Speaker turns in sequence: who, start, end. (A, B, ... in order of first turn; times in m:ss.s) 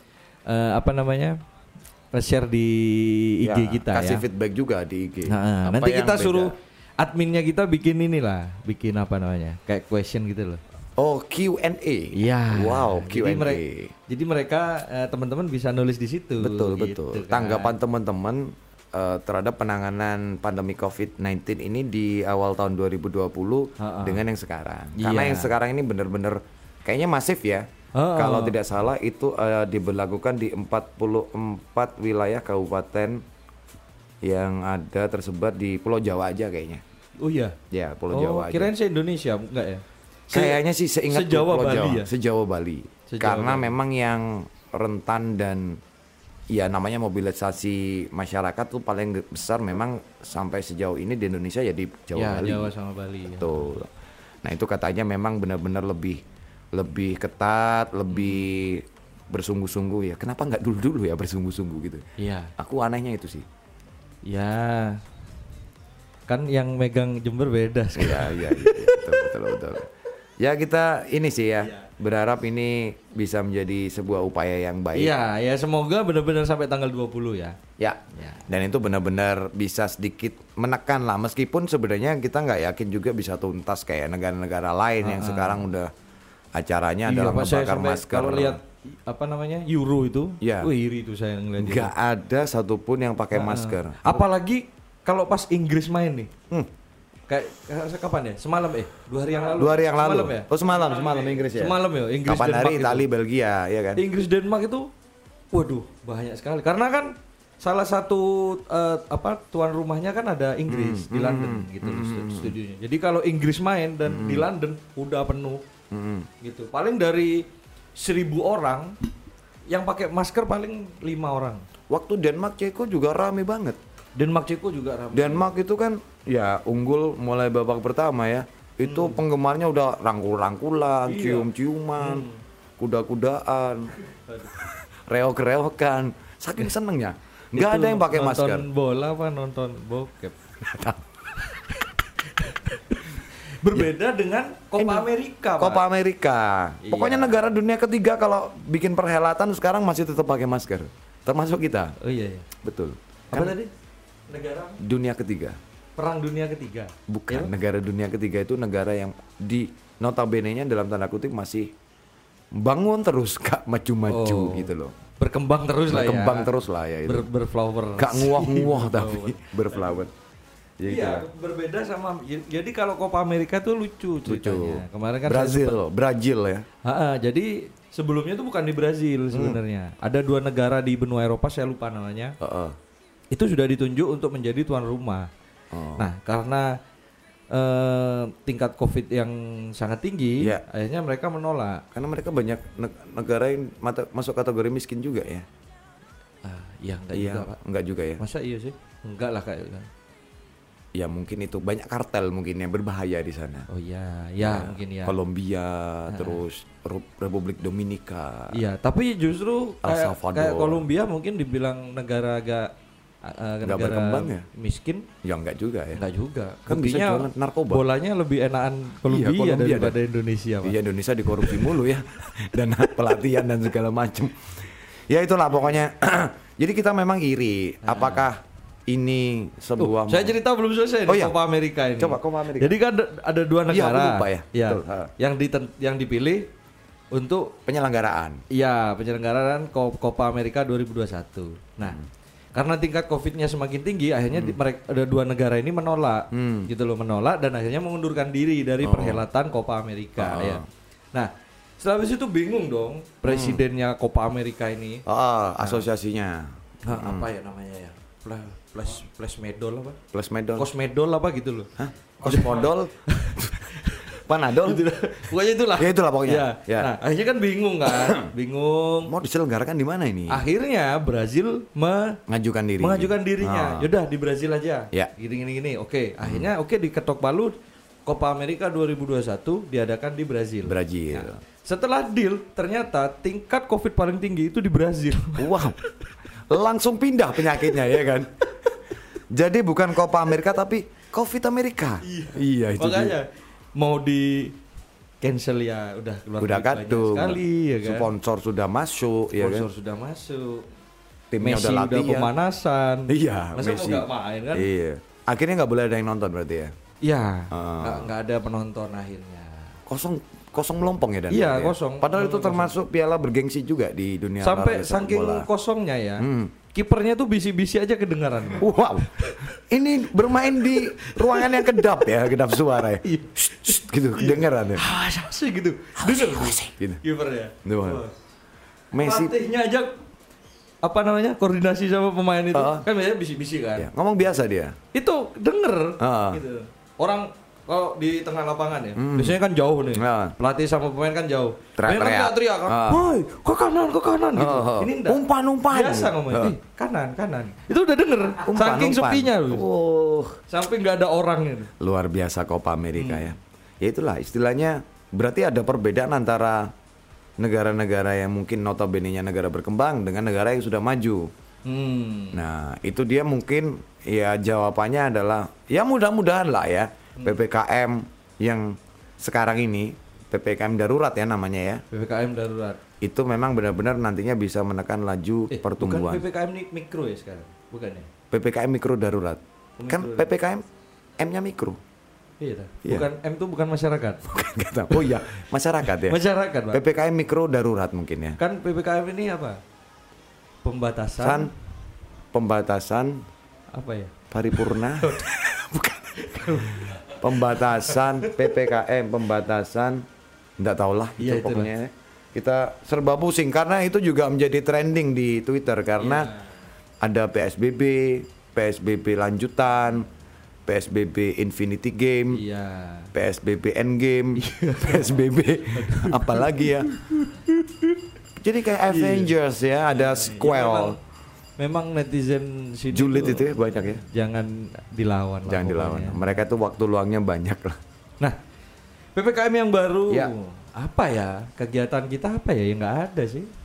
0:00.5-0:01.4 A
0:02.1-0:04.2 A
0:03.4-0:06.5 B
0:05.3-0:10.6 A
0:11.0-0:13.9 B
0:12.1-0:17.8 A
0:16.4-0:33.2 B
0:23.8-0:24.2 A
0:25.0-0:25.5 A
0:28.0-0:28.6 A
0:34.2-0:36.8 B
0:37.2-0:37.6 A
0:37.7-0:38.7 B
0:38.1-0:42.1 A
0:40.3-0:45.8 B
0:43.1-0:43.8 A
0:46.5-0:52.7 B
0:52.2-0:53.8 A
0:53.3-0:53.9 B
0:54.4-0:56.2 B
0:56.7-1:02.0 B
0:58.1-0:58.4 A
1:02.2-1:02.5 A
1:02.6-1:03.5 B
1:04.2-1:05.0 A
1:06.3-1:09.3 A
1:08.0-1:09.9 B
1:10.4-1:15.2 B
1:14.9-1:17.6 A
1:17.8-1:25.9 B
1:18.1-1:18.4 A
1:25.0-1:25.6 A
1:26.6-1:28.6 B
1:27.1-1:31.9 A
1:30.4-1:30.7 B
1:31.6-1:34.2 B
1:33.3-1:36.3 A
1:37.3-1:43.1 A
1:39.5-1:44.0 B
1:44.0-1:44.9 A
1:45.5-1:55.6 A
1:50.7-1:52.6 B
1:54.1-1:54.5 B
1:55.9-1:56.3 B
1:56.4-1:57.4 A
1:58.0-1:59.0 A
1:59.7-2:01.6 A
2:01.9-2:03.8 B
2:04.2-2:05.5 A
2:05.1-2:12.3 B
2:08.8-2:09.2 A
2:11.1-2:12.4 A
2:12.8-2:14.0 B
2:14.1-2:14.6 A
2:14.6-2:18.7 B
2:17.6-2:20.4 A
2:20.6-2:21.0 B
2:21.4-2:25.8 A
2:24.8-2:32.0 B
2:26.8-2:27.4 A
2:32.0-2:32.5 A
2:32.6-2:33.6 B
2:33.3-2:33.7 A
2:34.3-2:34.8 A
2:34.8-2:35.6 B
2:36.0-2:37.5 A
2:37.1-2:41.7 B
2:42.5-2:44.9 B
2:44.1-2:46.5 A
2:45.9-2:47.3 B
2:47.0-2:50.0 A
2:48.0-2:50.1 B
2:50.8-2:51.3 B
2:50.8-2:55.8 A
2:54.2-2:56.7 B
2:56.8-3:02.4 A
2:59.3-2:59.6 B
3:02.4-3:02.8 B
3:03.3-3:05.3 A
3:05.7-3:06.1 B
3:06.0-3:06.7 A
3:07.5-3:11.8 A
3:11.9-3:15.5 B
3:16.4-3:17.6 A
3:17.1-3:18.2 B
3:18.2-3:19.9 A
3:21.0-3:23.7 B
3:23.7-3:25.2 A
3:24.4-3:28.6 B
3:26.1-3:26.4 A
3:28.5-3:32.7 A
3:29.8-3:30.9 B
3:33.2-3:35.1 A
3:33.6-3:34.5 B
3:35.2-3:36.0 B
3:35.9-3:40.8 A
3:36.7-3:37.8 B
3:39.0-3:40.0 B
3:40.6-3:50.4 B
3:41.3-3:41.8 A
3:47.8-3:48.3 A
3:49.8-3:56.5 A
3:51.1-3:51.4 B
3:52.0-3:52.8 B
3:53.7-3:55.1 B
3:57.1-3:57.6 A
3:57.7-3:58.4 B
3:58.5-4:02.0 A
4:02.5-4:10.6 A
4:04.3-4:04.6 B
4:06.3-4:06.7 B
4:08.8-4:09.2 B
4:10.2-4:10.7 B
4:11.1-4:15.0 A
4:13.2-4:13.6 B
4:15.1-4:17.3 B
4:16.8-4:20.0 A
4:20.1-4:20.7 B
4:20.6-4:21.7 A
4:21.8-4:24.9 B
4:22.2-4:29.1 A
4:25.7-4:27.0 B
4:27.9-4:28.3 B
4:29.1-4:30.4 B
4:30.3-4:32.2 A
4:32.3-4:33.9 B
4:32.8-4:37.5 A
4:36.2-4:36.5 B
4:38.1-4:46.1 A
4:40.7-4:41.4 B
4:45.4-4:45.8 B
4:46.5-4:48.4 B
4:47.5-4:47.8 A
4:49.3-4:53.2 B
4:52.0-4:54.6 A
4:55.2-4:58.1 A
4:56.4-4:59.7 B
4:59.3-5:00.7 A
5:01.3-5:02.3 B
5:01.4-5:04.7 A
5:03.1-5:06.7 B
5:07.0-5:09.8 A
5:07.5-5:08.1 B
5:09.9-5:15.5 B
5:11.3-5:12.8 A
5:14.4-5:19.5 A
5:16.2-5:16.5 B
5:18.5-5:24.9 B
5:20.5-5:28.1 A
5:26.0-5:27.0 B
5:27.6-5:28.0 B
5:28.9-5:29.4 B
5:29.0-5:30.0 A
5:30.8-5:33.9 A
5:32.5-5:32.9 B
5:33.8-5:34.8 B
5:34.9-5:49.6 A
5:36.0-5:36.4 B
5:39.0-5:39.4 B
5:39.9-5:40.4 B
5:41.8-5:43.2 B
5:44.4-5:46.6 B
5:48.4-5:50.4 B
5:50.5-5:51.7 A
5:51.8-5:56.7 B
5:53.0-5:53.4 A
5:57.4-6:01.3 B
6:01.6-6:02.4 A
6:02.3-6:11.8 B
6:11.9-6:12.8 A
6:13.0-6:16.2 B
6:15.5-6:18.1 A
6:18.3-6:20.6 B
6:19.8-6:20.3 A
6:21.2-6:21.8 B
6:22.4-6:24.2 A
6:24.2-6:28.4 B
6:24.9-6:26.8 A
6:28.4-6:29.6 A
6:30.6-6:31.5 A
6:31.2-6:31.5 B
6:32.3-6:33.2 B
6:33.7-6:35.3 A
6:34.3-6:40.0 B
6:36.1-6:38.7 A
6:40.6-6:46.3 B
6:41.2-6:41.7 A
6:46.0-6:46.5 A
6:47.0-6:50.1 B
6:50.7-6:52.4 B
6:52.3-6:53.1 A
6:53.1-6:57.0 B
6:54.4-6:58.0 A
6:58.4-7:01.0 B
6:58.9-6:59.3 A
6:59.9-7:01.0 A
7:01.6-7:06.4 A
7:02.9-7:04.0 B
7:05.5-7:07.8 B
7:09.2-7:13.5 A